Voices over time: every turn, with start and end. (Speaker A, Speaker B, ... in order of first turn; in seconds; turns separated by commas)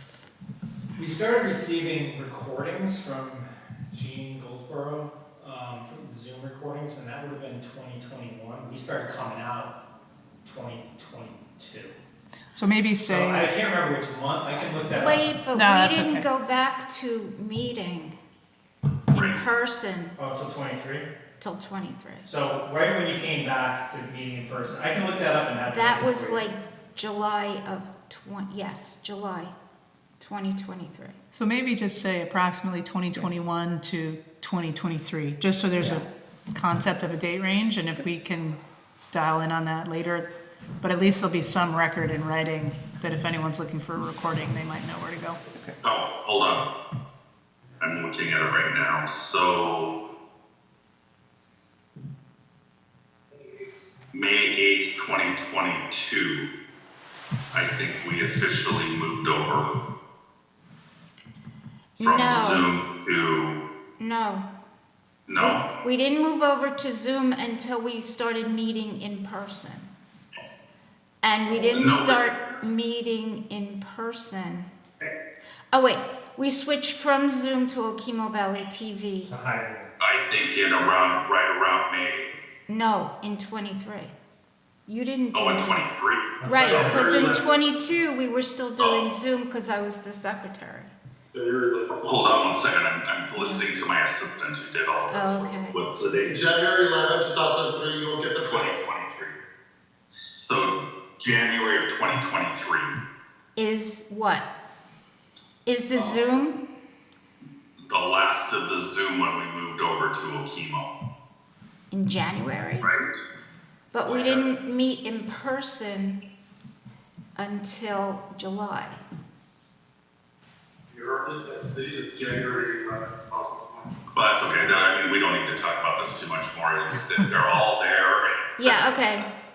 Speaker A: 0.9-9.8, Speaker A: 10.4-11.9, Speaker B: 12.5-13.5, Speaker A: 13.1-15.2, Speaker C: 14.9-18.1, Speaker B: 15.5-16.2, Speaker C: 19.1-20.2, Speaker D: 19.1-19.4, Speaker A: 20.1-21.1, Speaker C: 21.4-22.3, Speaker A: 22.2-26.5, Speaker C: 25.7-29.5, Speaker C: 30.2-31.1, Speaker B: 31.3-38.6, Speaker C: 35.8-36.0, Speaker B: 39.1-40.3, Speaker B: 40.8-45.4, Speaker D: 45.8-46.7, Speaker D: 47.8-50.0, Speaker D: 54.1-56.5, Speaker D: 57.5-59.8, Speaker C: 62.0-62.7, Speaker D: 62.0-63.6, Speaker C: 64.0-64.5, Speaker D: 65.3-65.7, Speaker C: 65.3-69.9, Speaker C: 71.2-74.7, Speaker D: 71.7-72.3, Speaker C: 75.7-79.3, Speaker A: 79.2-79.9, Speaker D: 80.0-82.3, Speaker C: 82.7-84.1, Speaker C: 84.9-85.8, Speaker D: 85.3-87.2, Speaker A: 86.4-87.2, Speaker C: 86.4-90.9, Speaker E: 86.7-87.4, Speaker D: 88.8-89.1, Speaker E: 91.3-92.0, Speaker D: 92.0-96.4, Speaker C: 93.3-93.7, Speaker C: 95.1-95.8, Speaker E: 96.2-98.7, Speaker D: 98.4-99.4, Speaker D: 100.3-103.0, Speaker C: 103.5-104.5, Speaker C: 105.6-106.6, Speaker D: 107.9-110.9, Speaker C: 111.9-112.9, Speaker D: 112.8-113.1, Speaker C: 113.9-116.2, Speaker E: 114.1-114.4, Speaker C: 117.3-119.0, Speaker E: 120.9-123.9, Speaker D: 124.1-128.9, Speaker C: 128.6-129.3